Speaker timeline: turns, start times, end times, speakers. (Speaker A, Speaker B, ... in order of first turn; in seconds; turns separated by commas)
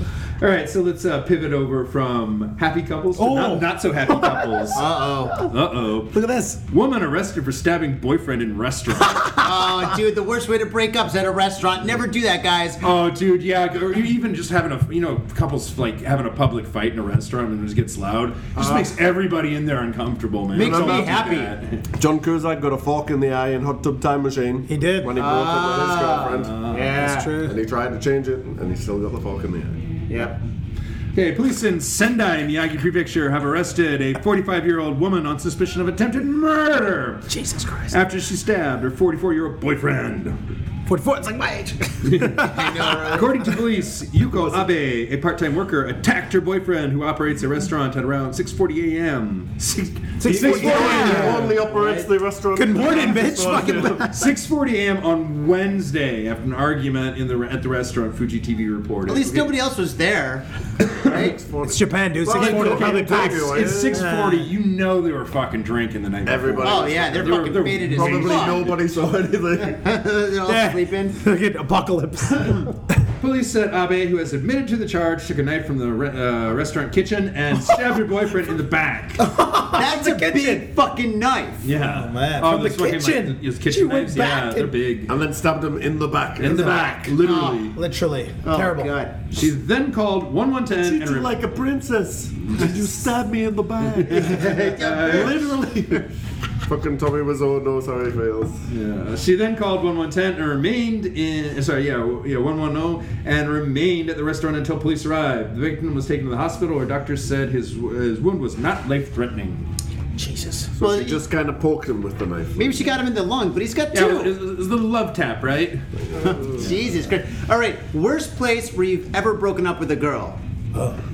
Speaker A: 0.4-4.8, Speaker B: 3.1-5.5, Speaker C: 4.7-5.4, Speaker A: 5.5-6.2, Speaker B: 6.1-6.6, Speaker A: 6.7-9.3, Speaker B: 9.0-9.8, Speaker C: 9.4-12.8, Speaker A: 12.8-21.8, Speaker C: 18.6-18.9, Speaker C: 20.5-21.5, Speaker D: 20.5-21.2, Speaker D: 21.9-26.6, Speaker B: 24.7-25.1, Speaker C: 25.2-27.3, Speaker A: 26.4-26.9, Speaker B: 27.0-27.6, Speaker D: 27.3-29.8, Speaker C: 30.1-30.4, Speaker A: 31.1-37.3, Speaker B: 37.3-38.0, Speaker A: 37.9-40.4, Speaker B: 40.9-43.3, Speaker A: 42.0-52.0, Speaker C: 42.5-43.2, Speaker B: 50.2-51.5, Speaker D: 50.3-54.0, Speaker C: 50.6-51.3, Speaker B: 52.5-54.3, Speaker A: 53.9-59.5, Speaker C: 59.1-60.5, Speaker C: 61.0-61.4, Speaker D: 61.0-64.1, Speaker B: 61.6-64.5, Speaker A: 62.3-68.8, Speaker D: 66.2-69.8, Speaker C: 66.6-68.7, Speaker C: 69.6-71.2, Speaker B: 70.5-73.0, Speaker A: 73.2-79.2, Speaker B: 79.2-80.7, Speaker C: 79.7-81.6, Speaker A: 81.6-85.1, Speaker B: 81.7-84.7, Speaker D: 85.1-87.3, Speaker A: 86.4-87.8, Speaker C: 87.2-87.6, Speaker B: 87.2-88.9, Speaker C: 88.4-89.2, Speaker A: 89.3-91.4, Speaker D: 90.8-96.0, Speaker A: 93.9-95.5, Speaker C: 94.2-96.0, Speaker D: 96.6-98.6, Speaker A: 98.7-109.7, Speaker B: 110.2-110.7, Speaker D: 110.8-113.0, Speaker C: 110.8-111.2, Speaker C: 112.6-114.3, Speaker A: 113.9-115.8, Speaker D: 116.1-116.7, Speaker C: 116.2-120.4